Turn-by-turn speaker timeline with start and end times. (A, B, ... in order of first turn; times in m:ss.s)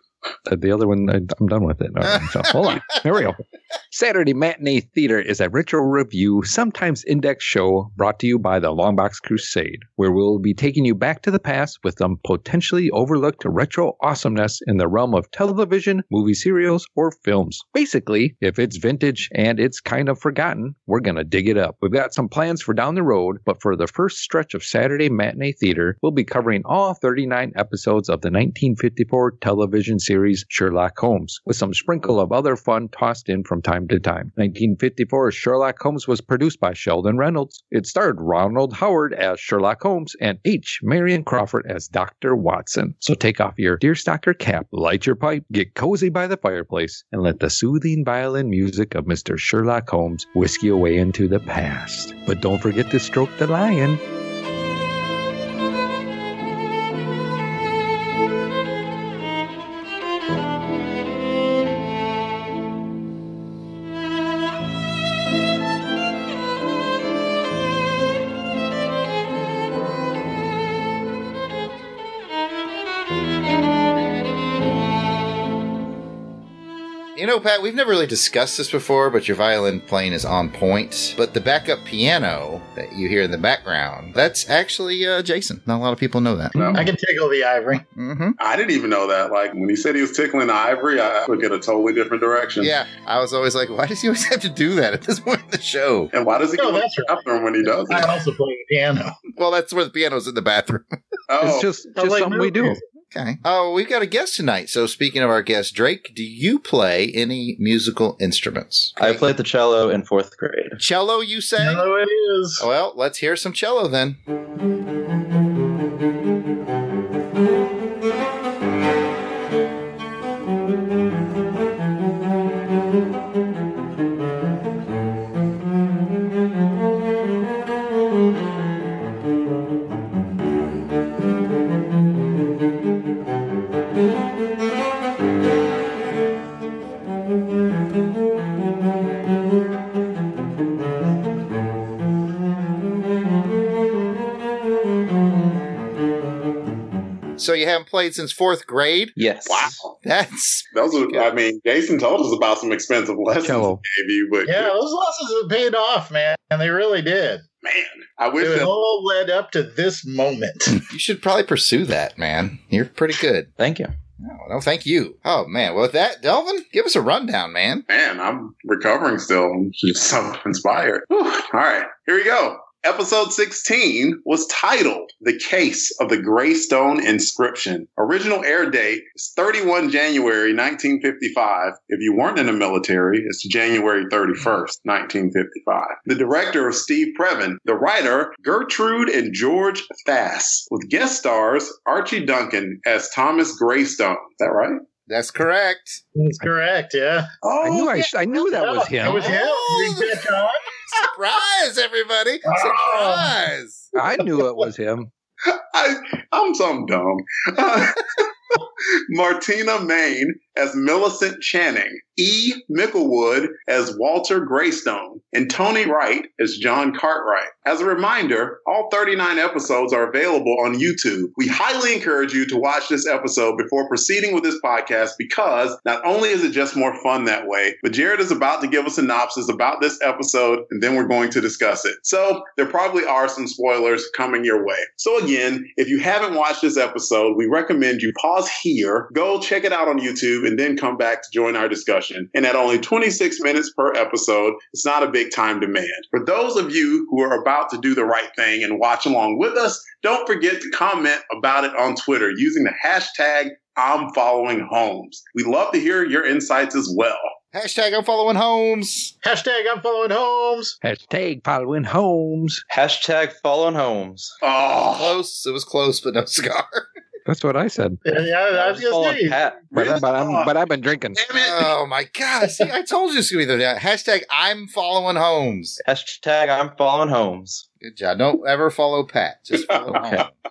0:00.5-0:03.4 A
0:02.0-0:03.2 B
0:03.9-0:54.0 A
1:17.2-1:26.6 B
1:26.5-1:26.8 C
1:26.6-1:26.8 A
1:26.7-1:27.8 D
1:27.9-1:28.4 B
1:28.4-1:32.7 C
1:32.6-1:36.1 B
1:36.1-1:38.1 C
1:36.6-1:37.2 D
1:37.9-1:39.2 D
1:39.3-1:41.0 B
1:41.3-1:41.7 C
1:41.4-1:42.8 A
1:42.0-1:42.8 D
1:43.1-1:49.3 B
1:49.0-1:50.8 E
1:50.8-1:51.9 B
1:51.6-1:52.6 D
1:52.6-1:54.2 B
2:27.4-2:29.2 B
2:29.2-2:29.8 E
2:29.4-2:29.9 C
2:30.0-2:31.3 B
2:30.7-2:34.7 C
2:33.4-2:33.8 A
2:34.4-2:37.4 D
2:37.6-2:38.7 C
2:38.4-2:40.8 D
2:40.7-2:43.5 B
2:43.6-2:43.9 E
2:44.2-2:47.8 B
2:47.9-3:14.8 C
3:15.1-3:16.0 B
3:16.1-3:17.3 D
3:17.4-3:18.1 C
3:17.6-3:19.3 A
3:18.5-3:20.6 D
3:19.1-3:20.2 B
3:20.9-3:23.9 B
3:22.5-3:23.3 D
3:24.0-3:25.1 A
3:25.5-3:28.3 C
3:29.1-4:17.2 C
4:17.5-4:19.1 B
4:19.2-4:20.8 D
4:20.8-4:22.6 A
4:22.7-4:24.3 E
4:24.4-4:25.2 C
4:25.0-4:26.9 B
4:27.2-4:28.0 A
4:28.0-4:29.4 D
4:28.5-4:29.7 E
4:29.7-4:30.5 C
4:29.7-4:31.3 A
4:31.2-4:31.7 C
4:31.3-4:35.8 B
4:35.8-4:37.6 E
4:37.8-4:40.3 B
4:39.6-4:40.0 C
4:39.9-4:40.2 E